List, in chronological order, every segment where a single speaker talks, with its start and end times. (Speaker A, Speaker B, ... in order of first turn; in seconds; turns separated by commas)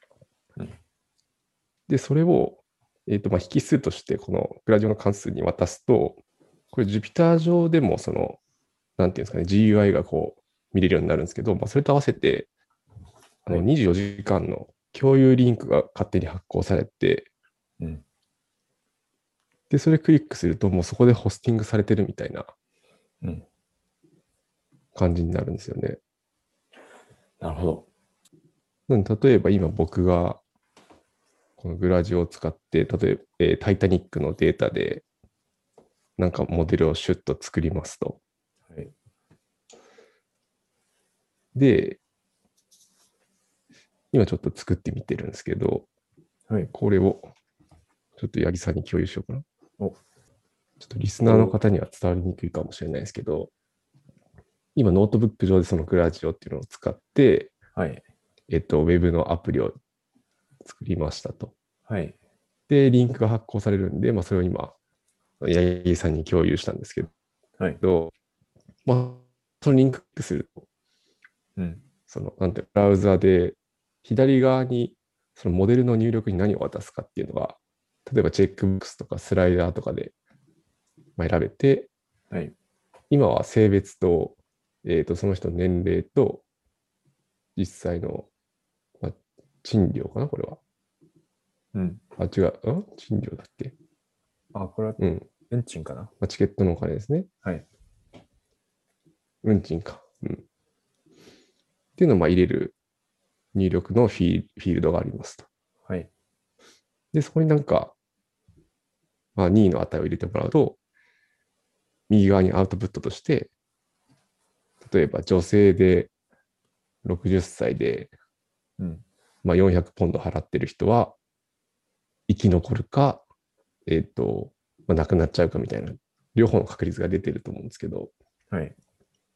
Speaker A: 1.9-6.2, Speaker A: 6.7-8.4, Speaker A: 9.0-12.5, Speaker A: 13.5-17.3, Speaker A: 19.7-22.5, Speaker A: 24.9-26.0, Speaker B: 27.4-27.9, Speaker A: 28.9-30.4, Speaker A: 31.6-35.0, Speaker A: 36.2-38.2, Speaker A: 41.5-42.0, Speaker A: 44.1-45.9, Speaker A: 46.7-47.3, Speaker A: 48.2-49.4, Speaker A: 50.8-53.5, Speaker B: 51.2-51.6, Speaker A: 54.8-57.5, Speaker B: 57.8-58.0, Speaker A: 58.5-59.8, Speaker A: 60.6-61.5, Speaker B: 61.9-62.1, Speaker A: 62.7-64.8, Speaker A: 65.4-67.1, Speaker A: 67.8-68.1, Speaker A: 68.9-70.6, Speaker B: 71.6-71.8, Speaker A: 72.1-80.1, Speaker A: 81.2-81.9, Speaker A: 83.1-86.4, Speaker A: 87.6-88.3, Speaker A: 89.0-90.6, Speaker B: 91.7-92.0, Speaker A: 92.2-93.7, Speaker B: 94.5-96.1, Speaker A: 95.0-95.3, Speaker A: 96.2-97.3, Speaker A: 99.4-100.4, Speaker A: 102.0-102.8, Speaker A: 103.5-105.5, Speaker A: 107.1-107.9, Speaker A: 109.4-110.8, Speaker A: 112.1-113.5, Speaker A: 114.8-116.1, Speaker A: 117.0-118.1, Speaker B: 118.8-119.0, Speaker A: 119.4-121.2, Speaker A: 122.3-123.2, Speaker A: 123.9-128.1